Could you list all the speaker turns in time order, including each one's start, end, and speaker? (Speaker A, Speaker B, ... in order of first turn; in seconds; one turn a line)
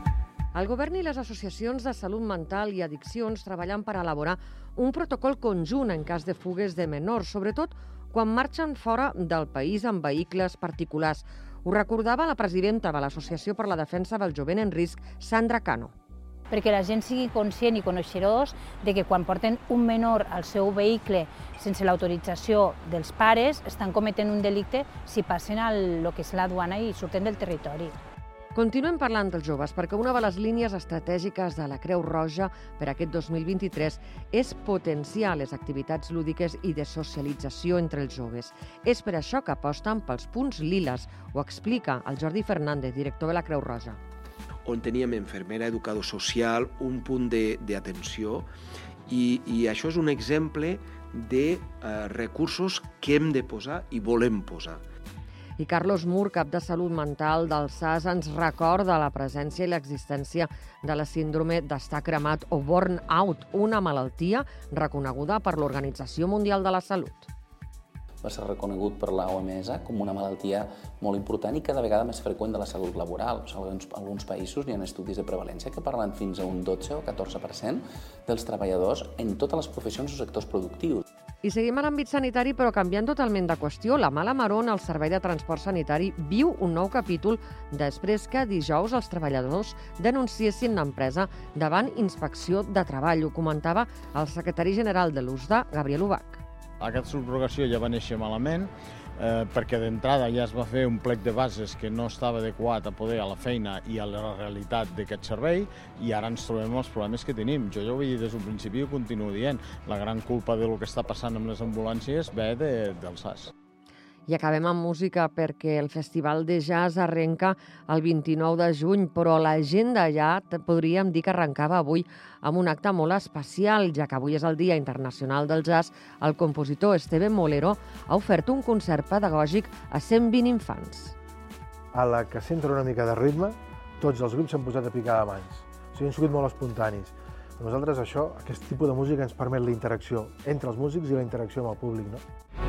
Speaker A: 0.5-15.9
Speaker B: 16.5-27.9
Speaker A: 28.5-44.0
Speaker C: 44.6-48.5
Speaker C: 49.1-54.8
Speaker A: 55.6-67.3
Speaker D: 68.2-81.0
Speaker A: 81.4-96.4
Speaker E: 96.8-113.5
Speaker A: 114.3-131.1
Speaker F: 131.9-142.2